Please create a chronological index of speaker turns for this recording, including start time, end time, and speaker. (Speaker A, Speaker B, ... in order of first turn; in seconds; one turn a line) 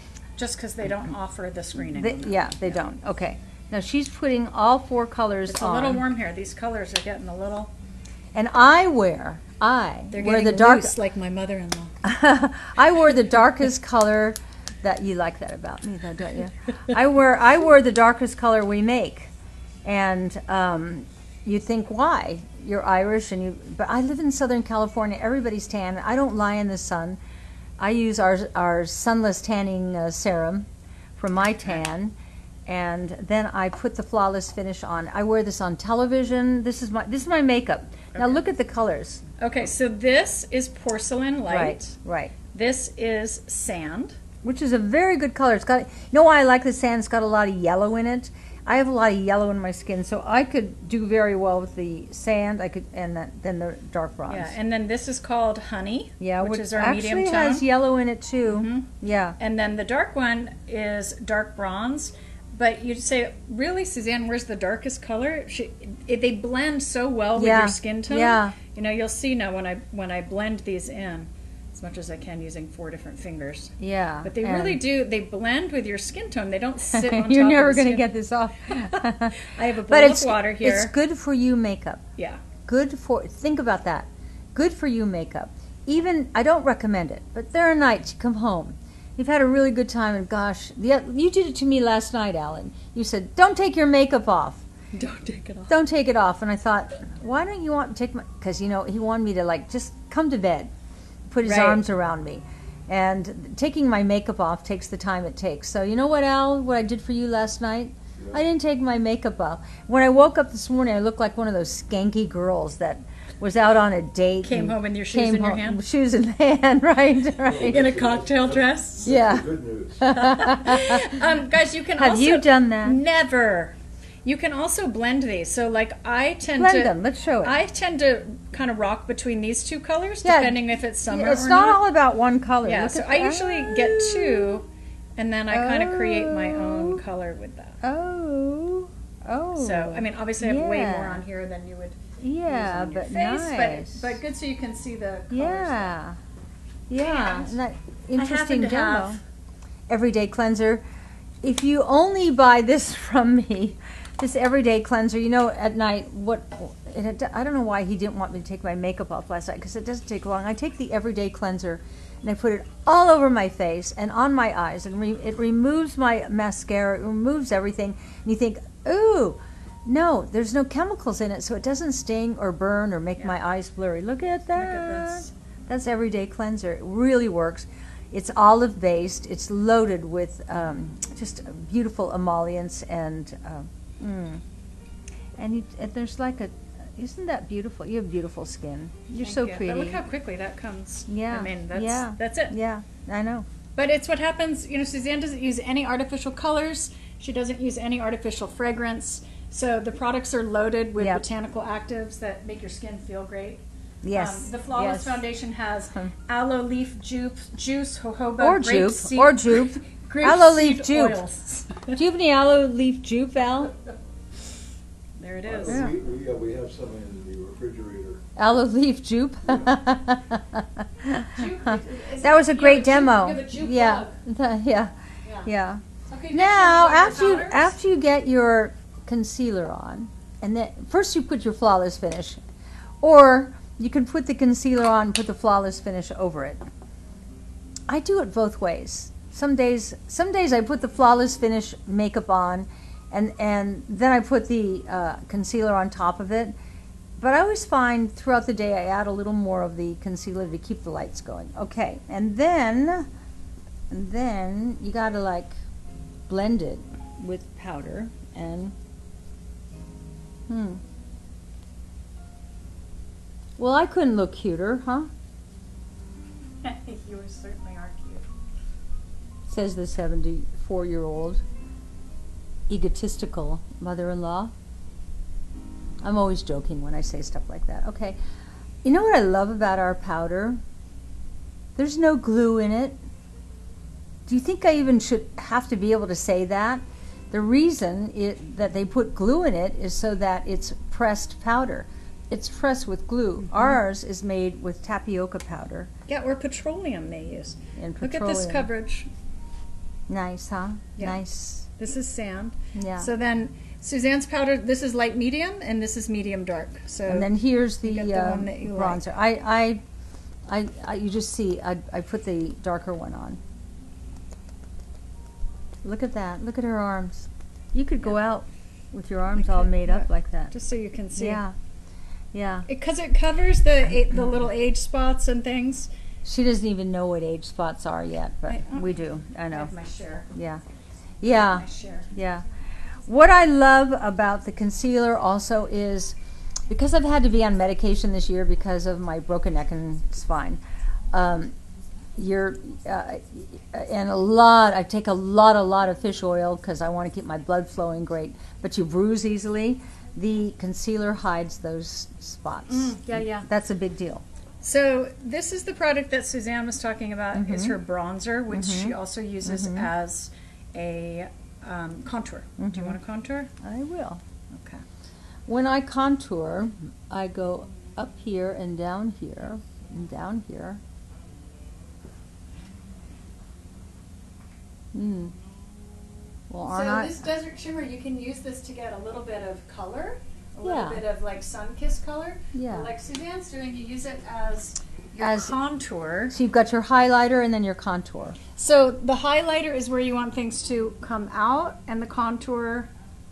Speaker A: 0.4-2.7
Speaker B: 1.9-6.0
Speaker A: 5.5-7.7
Speaker B: 8.3-10.9
Speaker A: 10.1-11.9
Speaker B: 12.0-19.3
Speaker B: 19.9-27.2
Speaker B: 27.8-32.1
Speaker B: 32.6-39.2
Speaker A: 39.4-41.9
Speaker B: 41.5-42.3
Speaker A: 42.5-44.2
Speaker B: 44.4-54.5
Speaker A: 54.3-57.6
Speaker B: 56.2-59.4
Speaker A: 58.5-78.1
Speaker B: 67.4-68.5
Speaker B: 73.8-74.8
Speaker B: 76.9-82.0
Speaker A: 78.7-80.9
Speaker B: 82.6-94.6
Speaker A: 94.9-95.7
Speaker B: 95.7-100.7
Speaker B: 101.3-117.8
Speaker A: 101.4-101.8
Speaker A: 114.4-115.8
Speaker C: 117.4-120.0
Speaker A: 117.5-119.1
Speaker B: 119.0-119.5
Speaker B: 120.0-121.2
Speaker A: 120.1-131.8
Speaker B: 122.0-123.0
Speaker B: 126.6-127.5
Speaker B: 130.2-134.5
Speaker A: 132.6-137.8
Speaker B: 135.5-137.0
Speaker B: 137.8-141.2
Speaker A: 139.6-145.9
Speaker B: 142.2-144.1
Speaker B: 145.3-146.2
Speaker B: 146.9-149.2
Speaker A: 147.0-147.6
Speaker A: 148.2-149.2
Speaker B: 149.9-150.8
Speaker B: 151.4-184.4
Speaker A: 174.5-175.3
Speaker B: 185.4-190.0
Speaker A: 189.2-192.6
Speaker B: 191.1-193.5
Speaker A: 193.8-203.6
Speaker B: 201.0-201.2
Speaker B: 204.0-205.2
Speaker A: 204.1-212.0
Speaker B: 208.4-211.2
Speaker B: 211.9-213.8
Speaker A: 215.2-215.8
Speaker C: 215.4-218.2
Speaker B: 215.7-215.9
Speaker B: 218.4-224.9
Speaker A: 221.3-224.2
Speaker A: 225.2-225.5
Speaker B: 225.4-232.4
Speaker A: 226.1-227.7
Speaker B: 233.0-236.6
Speaker B: 237.9-246.5
Speaker B: 247.2-253.1
Speaker B: 253.9-255.6
Speaker B: 256.3-258.8
Speaker B: 260.5-260.8
Speaker B: 263.6-265.1
Speaker A: 266.6-268.2
Speaker B: 269.5-271.4
Speaker B: 272.7-274.5
Speaker B: 276.0-278.2
Speaker B: 278.8-280.6
Speaker B: 281.8-283.0
Speaker B: 284.3-295.9
Speaker A: 293.5-293.8
Speaker A: 296.1-299.1
Speaker B: 297.8-298.7
Speaker B: 300.1-301.7
Speaker A: 301.8-307.3
Speaker B: 302.8-303.1
Speaker B: 307.1-309.8
Speaker A: 307.8-309.0
Speaker B: 310.5-313.4
Speaker B: 315.8-320.5
Speaker A: 319.4-321.4
Speaker B: 321.2-321.5
Speaker B: 322.3-322.7
Speaker A: 322.7-325.9
Speaker B: 326.2-329.7
Speaker A: 328.5-330.3
Speaker B: 330.3-330.6
Speaker B: 331.2-332.4
Speaker A: 331.3-332.1
Speaker B: 333.1-336.1
Speaker B: 336.7-340.6
Speaker B: 341.1-341.5
Speaker B: 342.1-354.2
Speaker A: 352.7-353.5
Speaker A: 354.6-363.5
Speaker B: 357.4-357.8
Speaker B: 358.5-359.9
Speaker B: 362.6-363.0
Speaker B: 363.6-364.2
Speaker A: 364.5-364.8
Speaker B: 365.5-370.8
Speaker B: 374.9-375.3
Speaker B: 376.5-377.2
Speaker A: 376.7-386.3
Speaker B: 380.6-381.0
Speaker B: 382.5-382.9
Speaker B: 385.2-385.5
Speaker B: 386.3-388.4
Speaker A: 388.6-392.9